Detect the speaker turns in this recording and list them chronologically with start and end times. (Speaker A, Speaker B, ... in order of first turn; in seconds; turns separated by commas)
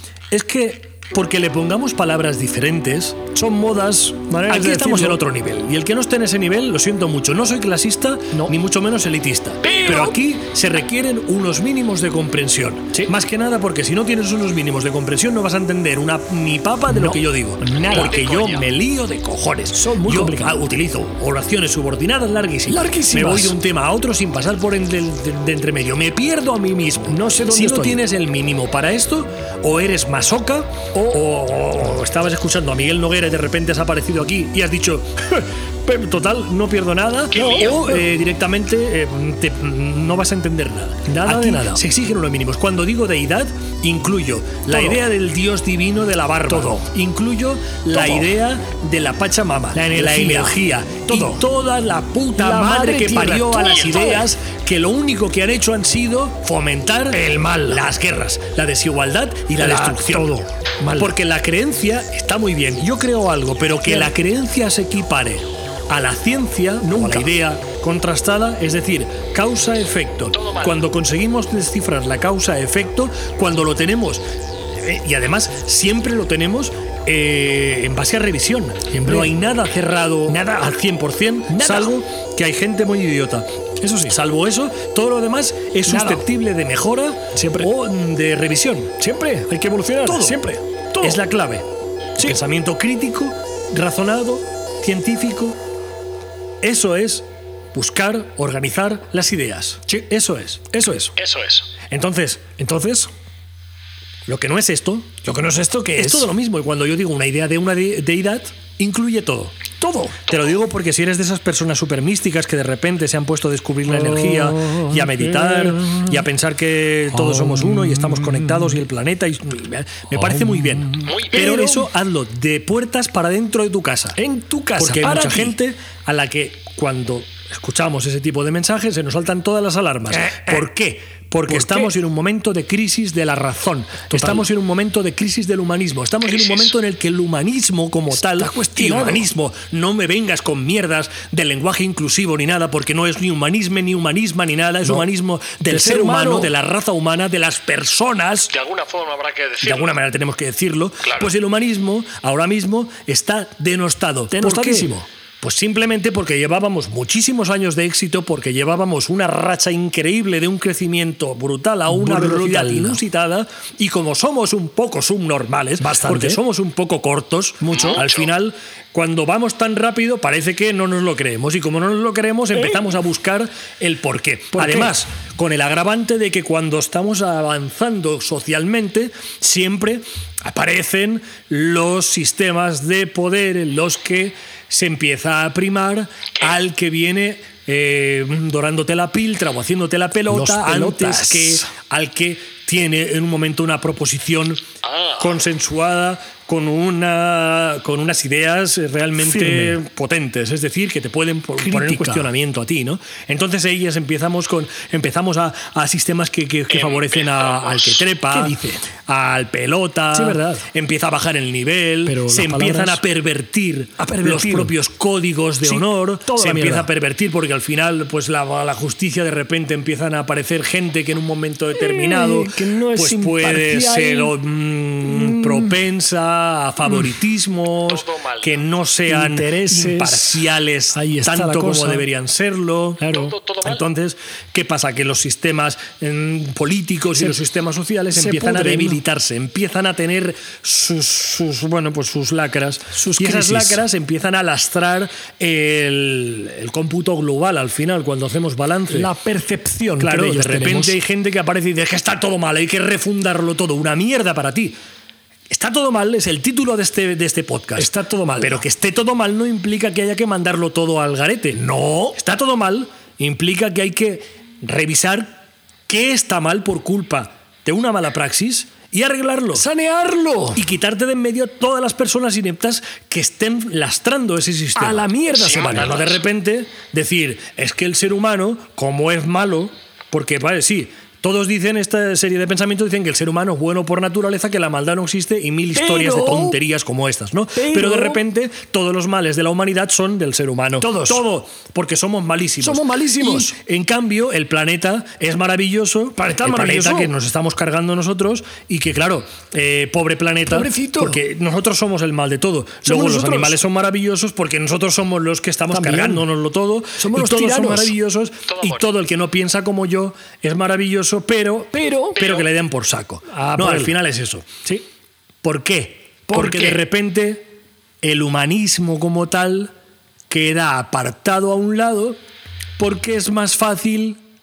Speaker A: 0.3-60.4, Speaker B: 3.4-5.2, Speaker B: 9.6-10.2, Speaker B: 16.9-18.2, Speaker C: 17.8-18.7, Speaker B: 19.7-20.6, Speaker B: 22.7-23.6, Speaker B: 27.1-28.0, Speaker C: 37.3-37.8, Speaker B: 37.3-38.1, Speaker B: 41.1-41.8, Speaker B: 44.7-45.0, Speaker B: 46.5-46.8, Speaker B: 47.9-48.4, Speaker B: 49.7-51.5, Speaker B: 52.3-54.3, Speaker C: 53.5-54.2, Speaker B: 57.1-57.8, Speaker B: 59.5-61.1, Speaker A: 60.9-89.0, Speaker B: 63.8-64.1, Speaker B: 66.8-67.3, Speaker C: 70.3-70.8, Speaker B: 78.9-79.3, Speaker B: 80.3-80.6, Speaker B: 81.5-81.9, Speaker B: 83.8-84.1, Speaker B: 85.8-86.2, Speaker B: 87.3-87.7, Speaker B: 89.0-91.2, Speaker A: 90.0-90.4, Speaker A: 91.0-91.6, Speaker A: 92.2-95.6, Speaker A: 96.6-100.7, Speaker B: 100.7-101.1, Speaker C: 101.2-101.7, Speaker A: 101.9-103.1, Speaker A: 104.3-105.2, Speaker B: 105.2-106.3, Speaker A: 105.9-109.6, Speaker B: 109.8-110.2, Speaker A: 110.3-124.2, Speaker B: 113.9-116.2, Speaker B: 117.1-118.8, Speaker B: 120.1-121.9, Speaker C: 121.0-121.4, Speaker B: 124.2-125.6, Speaker A: 124.8-148.5, Speaker B: 130.1-130.7, Speaker B: 131.5-131.9, Speaker B: 134.1-134.4, Speaker C: 136.3-136.7, Speaker B: 138.1-139.3, Speaker B: 145.7-146.5, Speaker C: 148.5-150.0, Speaker A: 149.6-194.6, Speaker C: 151.0-151.3, Speaker B: 154.3-155.1, Speaker B: 161.9-163.0, Speaker B: 165.8-166.4, Speaker B: 167.6-168.0, Speaker C: 167.7-168.3, Speaker B: 174.5-175.0, Speaker B: 190.3-191.7, Speaker C: 194.8-195.4, Speaker A: 195.2-249.1, Speaker B: 199.2-199.8, Speaker B: 201.6-202.3, Speaker C: 206.7-208.0, Speaker B: 208.3-208.8, Speaker B: 210.1-210.6, Speaker B: 212.0-213.0, Speaker B: 214.0-214.7, Speaker B: 215.6-216.9, Speaker B: 221.7-224.3, Speaker B: 225.0-225.8, Speaker B: 226.9-227.1, Speaker C: 227.8-228.6, Speaker B: 229.1-232.1, Speaker B: 233.0-233.3, Speaker C: 233.1-233.8, Speaker B: 237.1-237.4, Speaker B: 238.1-239.0, Speaker B: 242.9-243.8, Speaker B: 248.9-251.0, Speaker A: 250.0-254.8, Speaker A: 255.5-269.6, Speaker B: 257.8-258.6, Speaker B: 261.6-262.2, Speaker B: 269.5-270.6, Speaker A: 270.5-314.6, Speaker B: 274.8-275.9, Speaker C: 275.3-276.2, Speaker B: 285.7-286.6, Speaker B: 287.6-288.2, Speaker B: 290.8-291.2, Speaker B: 292.6-293.5, Speaker B: 296.1-297.1, Speaker B: 300.5-301.2, Speaker B: 302.8-303.6, Speaker B: 305.7-306.3, Speaker B: 307.0-307.9, Speaker C: 308.5-308.9, Speaker B: 311.7-312.2, Speaker C: 312.1-312.5, Speaker B: 313.3-313.9, Speaker A: 315.4-319.7, Speaker B: 316.3-316.8, Speaker A: 320.3-322.2, Speaker A: 322.8-324.2